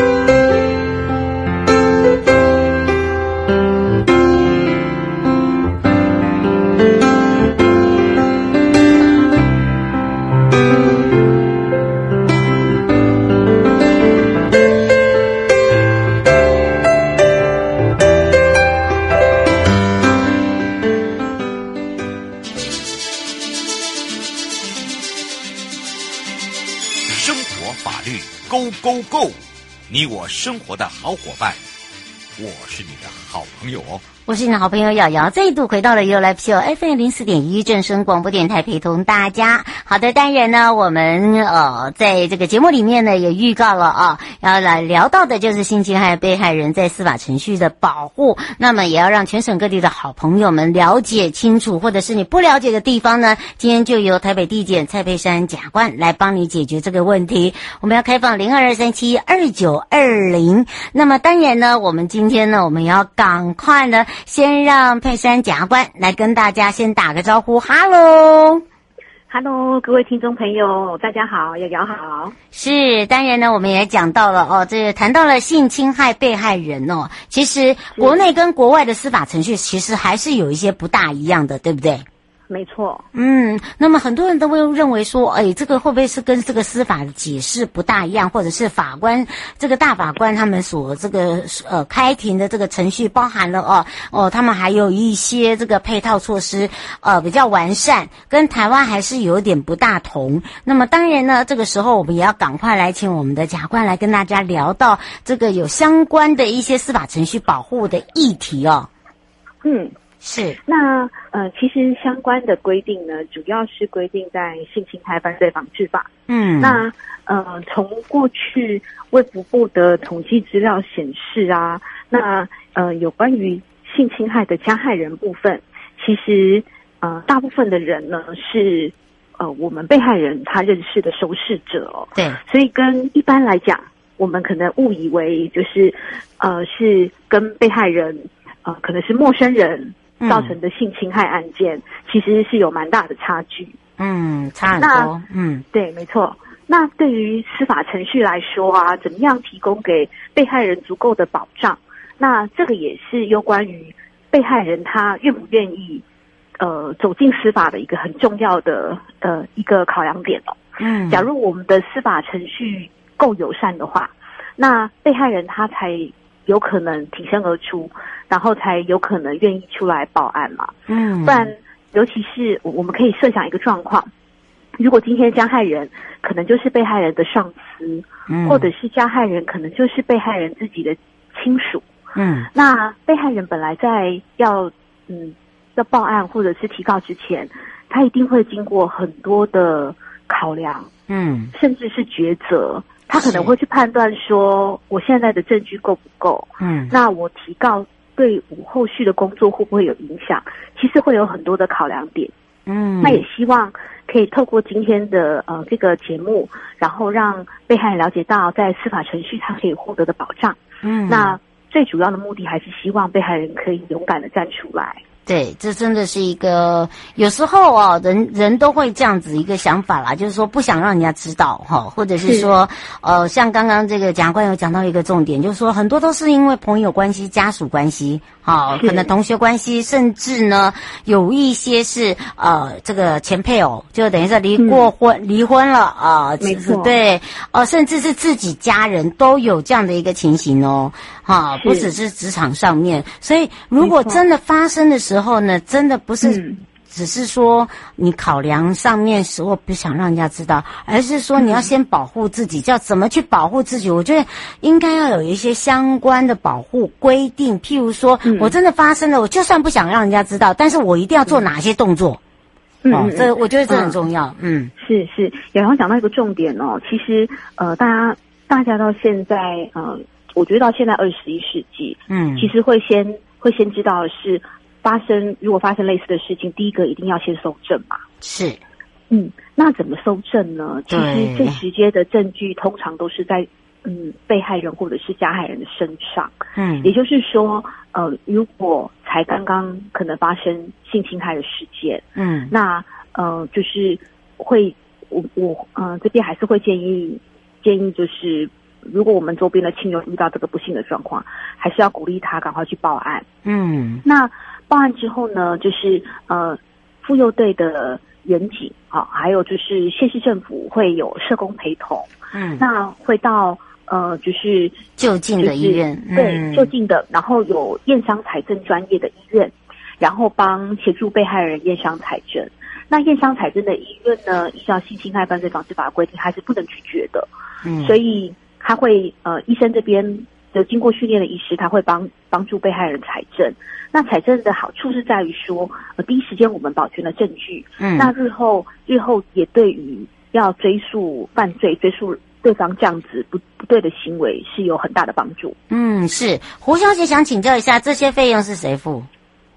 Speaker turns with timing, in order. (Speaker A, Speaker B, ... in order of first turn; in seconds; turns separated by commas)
Speaker A: 27.1-31.6, Speaker A: 32.4-34.0, Speaker B: 34.3-68.6, Speaker C: 69.3-72.3, Speaker B: 72.5-82.0, Speaker C: 82.5-83.0, Speaker B: 83.1-108.9, Speaker C: 109.6-109.9, Speaker B: 110.2-110.6, Speaker C: 110.7-143.8, Speaker B: 116.3-116.8, Speaker B: 140.2-140.5, Speaker B: 144.0-145.6, Speaker C: 144.8-145.1, Speaker C: 145.7-156.0, Speaker C: 156.6-160.6, Speaker B: 160.8-161.3, Speaker C: 161.1-174.1, Speaker B: 170.9-171.5, Speaker C: 174.8-181.8, Speaker B: 178.3-178.7, Speaker B: 182.2-182.5, Speaker C: 182.5-190.9, Speaker B: 191.1-191.5, Speaker C: 191.5-202.3, Speaker B: 193.2-193.5, Speaker B: 196.6-196.9, Speaker B: 202.7-203.2, Speaker C: 203.0-215.0, Speaker B: 210.8-211.3, Speaker B: 215.2-262.2, Speaker C: 222.2-222.5, Speaker C: 228.7-229.1, Speaker C: 234.6-234.9, Speaker C: 236.4-236.9, Speaker C: 241.5-241.9, Speaker C: 243.8-244.2, Speaker C: 246.2-246.6, Speaker C: 251.4-251.7, Speaker C: 258.2-258.5, Speaker C: 262.8-263.9, Speaker B: 262.9-264.7, Speaker C: 264.8-278.0, Speaker B: 272.1-272.5, Speaker B: 278.2-278.6, Speaker C: 279.1-303.2, Speaker B: 280.9-281.6, Speaker B: 286.6-286.9, Speaker B: 292.1-292.5, Speaker B: 303.4-304.0, Speaker C: 304.0-314.8, Speaker B: 312.3-312.6, Speaker B: 315.0-316.7, Speaker C: 315.4-327.3, Speaker B: 327.6-327.9, Speaker C: 327.8-345.6, Speaker B: 337.8-338.1, Speaker B: 345.7-349.1